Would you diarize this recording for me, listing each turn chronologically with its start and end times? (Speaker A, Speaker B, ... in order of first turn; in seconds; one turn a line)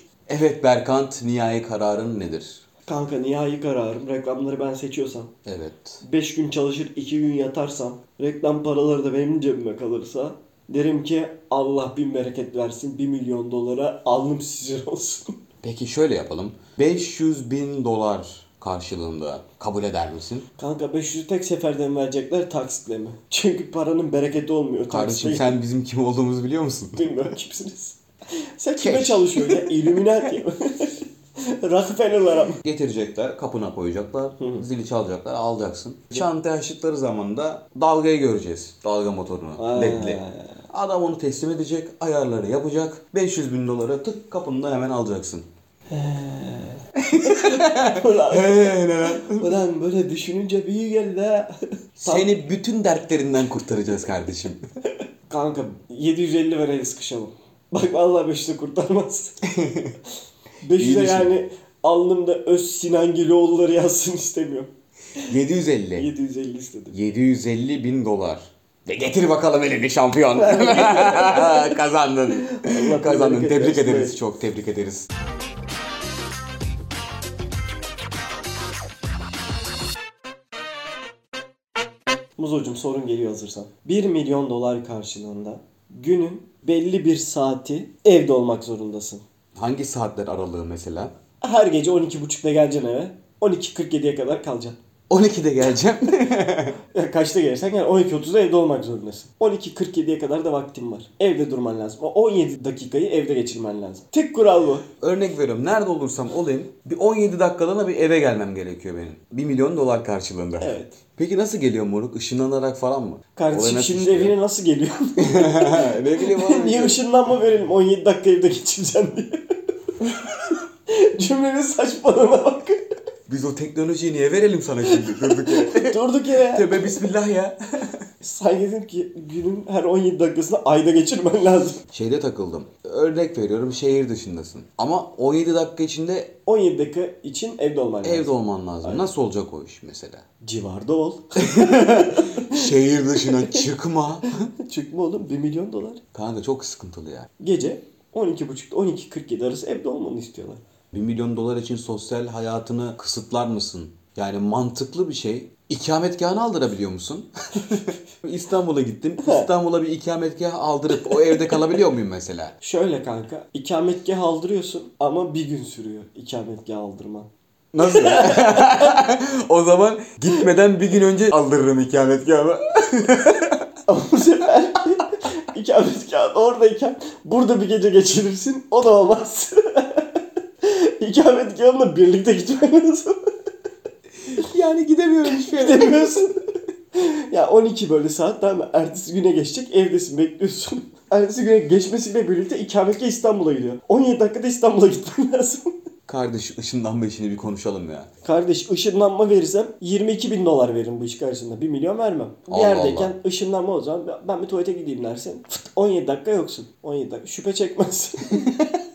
Speaker A: 0.3-2.6
Speaker B: 2.9-5.3
Speaker A: 5.5-6.0
Speaker B: 6.0-15.3
Speaker A: 15.6-20.5
Speaker B: 20.6-25.6
Speaker A: 24.9-27.2
Speaker B: 27.0-28.0
Speaker B: 28.6-32.6
Speaker A: 28.8-30.3
Speaker A: 32.6-45.5
Speaker B: 34.4-34.7
Speaker B: 39.6-40.6
Speaker B: 45.9-52.3
Speaker A: 47.0-49.6
Speaker A: 52.0-54.6
Speaker B: 55.3-59.4
Speaker A: 59.5-60.0
Speaker B: 60.6-64.7
Speaker A: 60.8-61.3
Speaker A: 65.3-66.1
Speaker B: 66.0-67.0
Speaker A: 66.9-75.1
Speaker B: 70.3-71.8
Speaker B: 72.3-74.2
Speaker B: 82.4-89.2
Speaker A: 89.5-91.1
Speaker B: 91.4-94.8
Speaker A: 95.1-96.8
Speaker B: 96.8-104.8
Speaker A: 105.0-114.4
Speaker B: 110.6-111.0
Speaker B: 113.4-119.4
Speaker A: 115.2-117.0
Speaker B: 120.0-122.8
Speaker A: 123.3-127.6
Speaker B: 124.9-127.0
Speaker B: 128.2-131.8
Speaker A: 131.9-136.3
Speaker B: 136.5-139.1
Speaker A: 138.0-140.2
Speaker B: 140.4-142.6
Speaker A: 141.4-144.5
Speaker B: 144.5-146.0
Speaker A: 146.1-147.3
Speaker B: 147.4-150.6
Speaker A: 150.9-162.6
Speaker B: 159.2-159.5
Speaker B: 161.0-161.6
Speaker B: 162.6-167.3
Speaker A: 167.7-173.6
Speaker B: 167.8-168.9
Speaker B: 173.9-183.2
Speaker A: 184.3-186.3
Speaker B: 185.3-186.4
Speaker B: 186.9-195.8
Speaker A: 196.1-198.1
Speaker B: 198.2-208.4
Speaker A: 202.5-203.2
Speaker A: 208.4-208.8